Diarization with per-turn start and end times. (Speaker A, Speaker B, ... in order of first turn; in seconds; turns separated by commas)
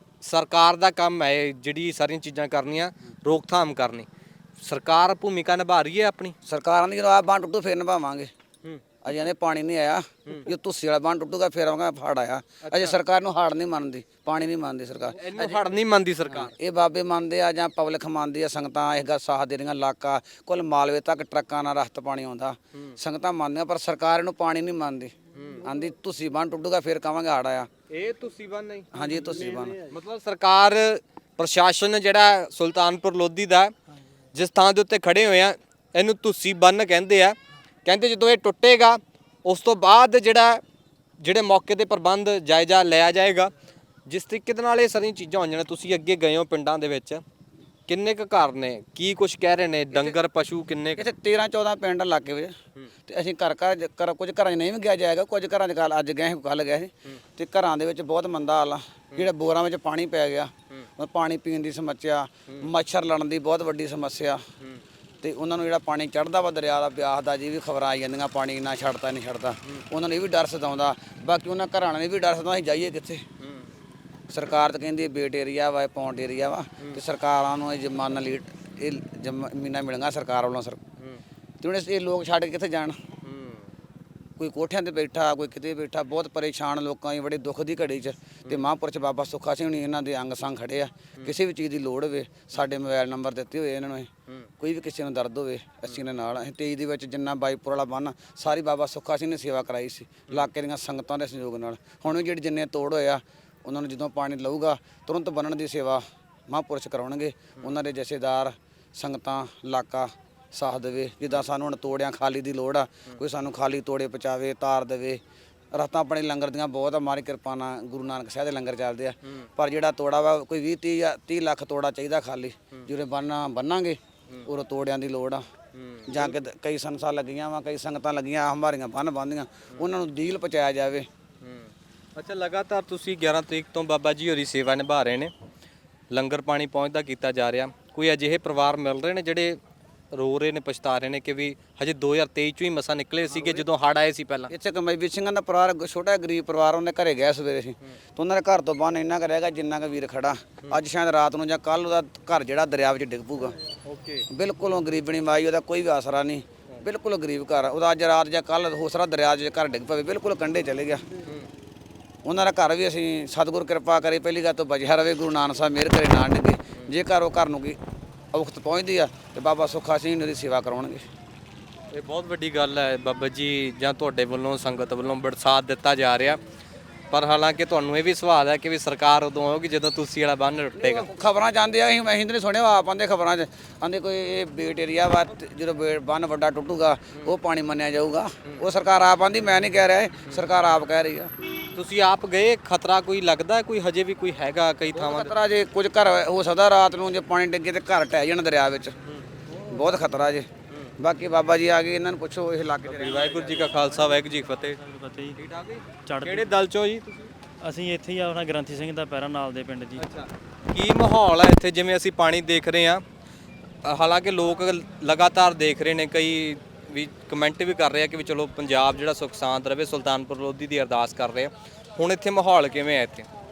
Speaker A: 0.2-4.0, Speaker A: 4.6-6.3, Speaker B: 6.5-8.3, Speaker B: 9.0-15.7, Speaker A: 12.6-13.0, Speaker A: 15.2-16.5, Speaker B: 16.3-27.7, Speaker A: 25.3-25.6, Speaker A: 27.9-33.7, Speaker B: 28.9-29.9, Speaker A: 34.3-40.6, Speaker A: 41.2-43.5, Speaker A: 44.1-47.2, Speaker A: 47.9-51.0, Speaker B: 51.0-64.4, Speaker B: 65.2-73.2, Speaker B: 74.3-80.8, Speaker B: 81.6-83.0, Speaker A: 83.2-83.6, Speaker B: 84.4-115.2, Speaker B: 115.7-125.5, Speaker A: 125.7-126.4, Speaker B: 126.1-131.1, Speaker A: 131.4-135.3, Speaker A: 136.1-139.6, Speaker A: 140.1-144.5, Speaker B: 143.3-143.6, Speaker B: 144.5-153.6, Speaker A: 153.8-154.2, Speaker B: 154.3-161.0, Speaker B: 162.2-167.8, Speaker B: 168.3-171.0, Speaker A: 171.9-176.4, Speaker A: 177.1-181.1, Speaker B: 180.8-191.3, Speaker A: 191.7-195.3, Speaker B: 194.9-198.9, Speaker B: 199.7-200.5, Speaker B: 201.0-204.0, Speaker A: 202.8-204.8, Speaker C: 204.8-205.4, Speaker A: 205.4-207.3, Speaker C: 206.1-206.5, Speaker C: 207.6-210.0, Speaker A: 210.0-213.0, Speaker A: 213.8-223.3